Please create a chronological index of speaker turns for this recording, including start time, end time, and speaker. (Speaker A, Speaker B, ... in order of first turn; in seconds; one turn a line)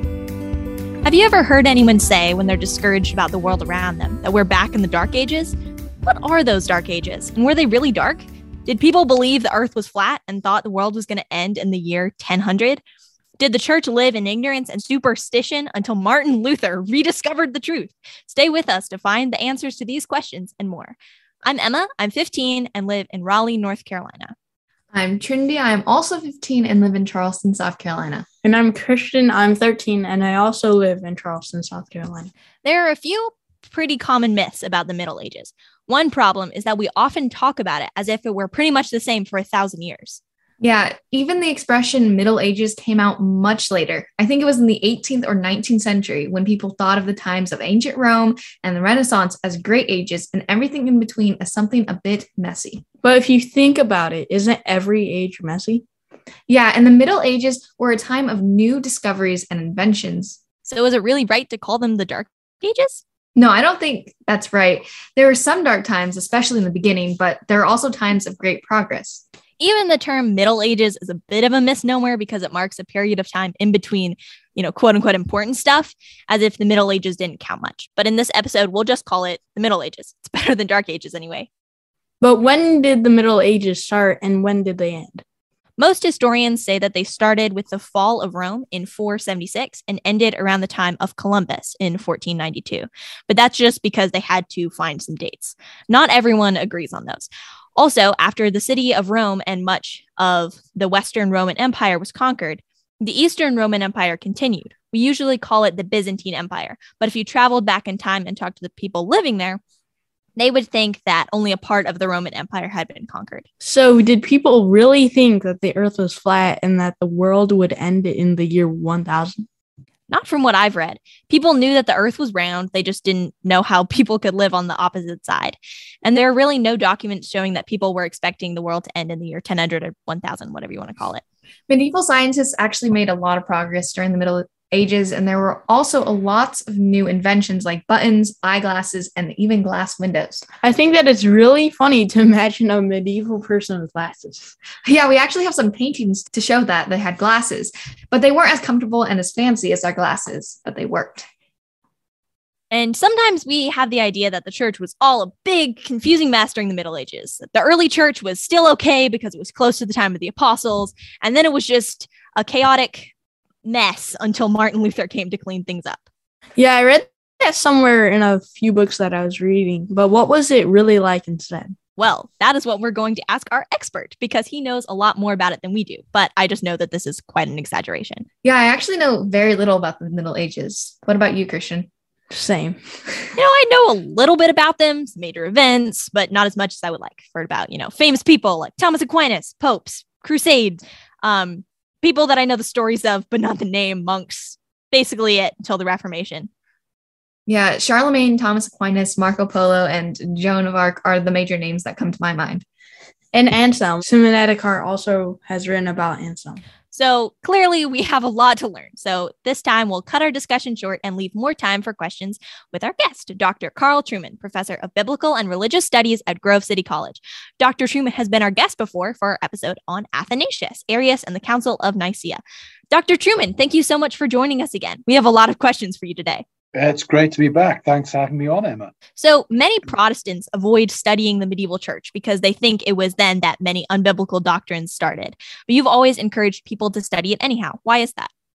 Speaker A: 1.0-12.8
Speaker A: 13.4-24.3
Speaker B: 24.9-28.2
Speaker C: 28.4-32.3
Speaker A: 32.6-40.2
Speaker B: 40.6-52.8
Speaker C: 53.0-55.8
Speaker B: 56.5-60.4
Speaker A: 60.6-63.0
Speaker B: 63.4-69.2
Speaker A: 69.6-81.5
Speaker C: 82.2-85.2
Speaker A: 85.8-109.6
Speaker A: 110.3-113.4
Speaker C: 113.6-119.4
Speaker A: 120.1-131.2
Speaker B: 131.7-140.5
Speaker C: 140.6-144.5
Speaker B: 144.8-151.2
Speaker A: 152.7-163.1
Speaker A: 163.6-166.0
Speaker C: 166.6-171.8
Speaker A: 172.0-178.2
Speaker B: 178.4-181.9
Speaker C: 182.3-183.3
Speaker A: 183.3-196.5
Speaker B: 197.5-202.6
Speaker C: 203.3-206.6
Speaker A: 206.9-226.4
Speaker D: 226.7-228.9
Speaker A: 229.2-238.3